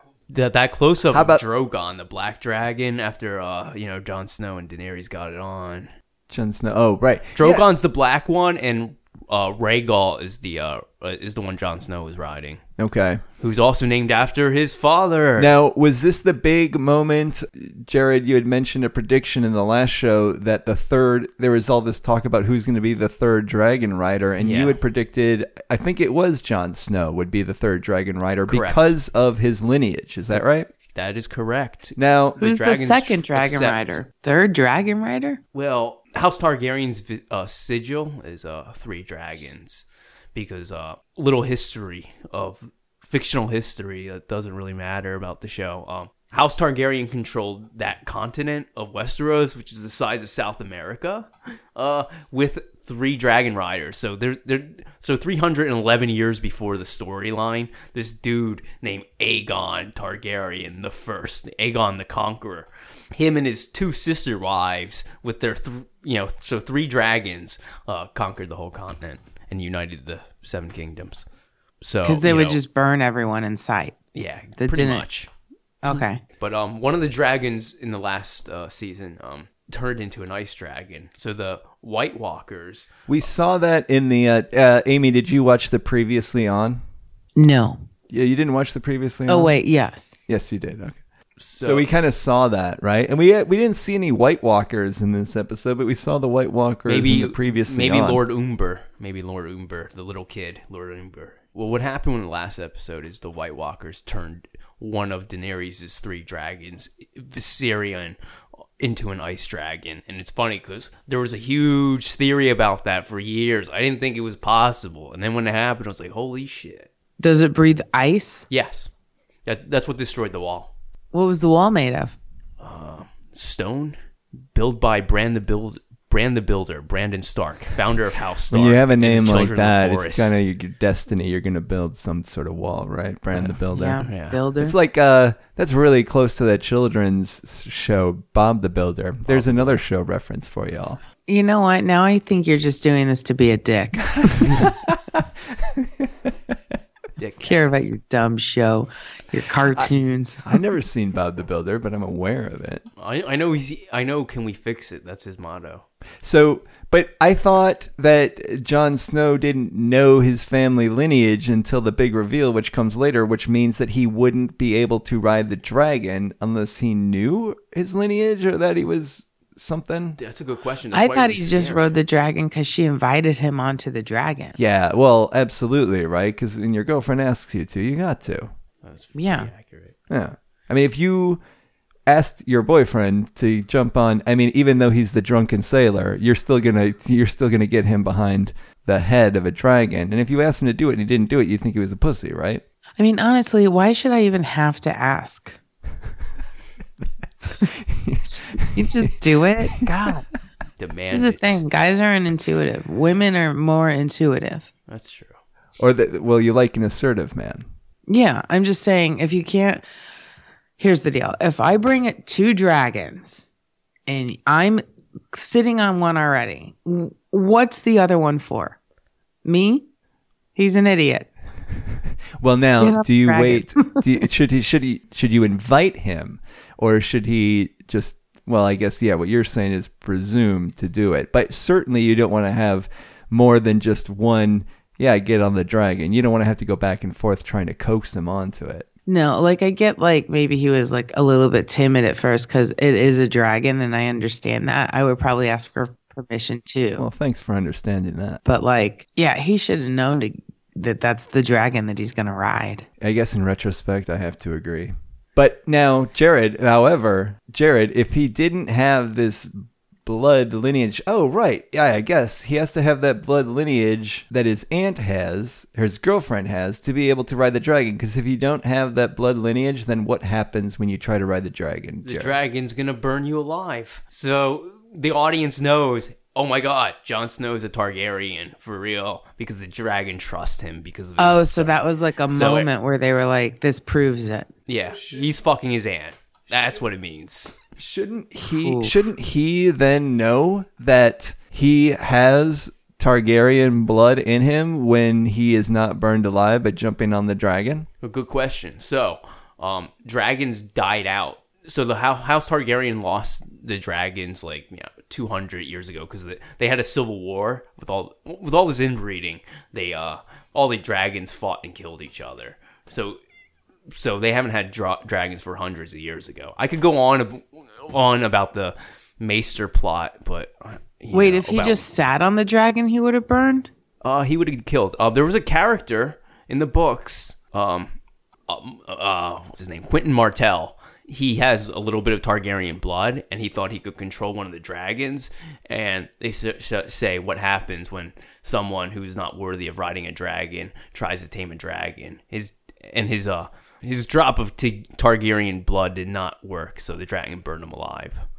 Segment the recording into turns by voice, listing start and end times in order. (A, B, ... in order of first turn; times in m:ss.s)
0:00.3-0:05.9 A
0:01.1-0:01.4 B
0:06.3-0:07.6 B
0:07.3-0:12.6 A
0:12.8-0:13.2 B
0:13.4-0:15.5 A
0:15.4-0:30.7 B
0:24.4-0:24.8 A
0:28.5-0:28.9 A
0:30.9-0:34.0 A
0:32.0-0:32.4 B
0:32.4-0:35.4 C
0:35.5-0:39.8 A
0:40.3-1:11.2 A
1:11.8-1:12.6 A
1:12.0-1:14.0 C
1:14.1-1:15.3 A
1:14.6-1:15.0 C
1:15.8-1:16.2 C
1:15.9-1:22.9 A
1:23.1-1:26.8 B
1:27.4-1:27.8 C
1:28.1-1:29.5 B
1:29.3-1:30.1 C
1:30.3-1:31.0 B
1:31.4-1:31.9 A
1:31.6-1:38.2 B
1:36.8-1:48.2 A
1:48.8-1:56.9 A
1:57.2-1:58.4 C
1:58.5-1:58.9 A
1:59.4-2:00.7 A
2:01.1-2:02.2 C
2:02.6-2:04.0 A
2:04.5-2:10.4 A
2:08.5-2:14.0 B
2:13.4-2:14.4 A
2:13.7-2:14.7 C
2:14.6-2:21.0 B
2:19.3-2:19.8 A
2:21.2-2:24.7 C
2:24.2-2:26.6 B
2:27.2-2:27.8 A
2:27.4-2:30.6 C
2:30.4-2:32.8 B
2:33.0-2:35.8 A
2:36.2-2:50.2 B
2:50.2-2:51.9 A
2:50.9-2:54.6 C
2:54.6-2:58.5 B
2:58.8-3:00.0 A
2:59.1-2:59.5 C
3:00.1-3:01.4 B
3:02.1-3:12.6 B
3:13.0-3:15.6 C
3:17.0-3:19.1 B
3:18.4-3:20.2 C
3:19.6-3:20.1 B
3:20.8-3:21.6 A
3:21.1-3:24.7 C
3:24.9-3:25.4 A
3:25.8-3:27.6 B
3:28.1-3:29.8 C
3:30.8-3:33.4 C
3:34.1-3:38.8 C
3:39.4-3:39.8 C
3:40.6-3:41.3 C
3:42.4-3:58.8 B
3:42.8-3:44.0 C
3:59.1-4:07.0 C
4:07.0-4:08.4 B
4:08.4-4:12.8 C
4:13.0-4:32.4 B
4:32.0-4:42.7 A
4:41.2-4:44.5 C
4:44.7-4:47.6 A
4:47.8-4:57.9 B
4:48.5-4:48.9 C
4:58.0-5:13.2 A
5:13.9-5:21.8 A
5:21.1-5:23.7 C
5:24.0-5:27.9 A
5:28.5-5:48.2 A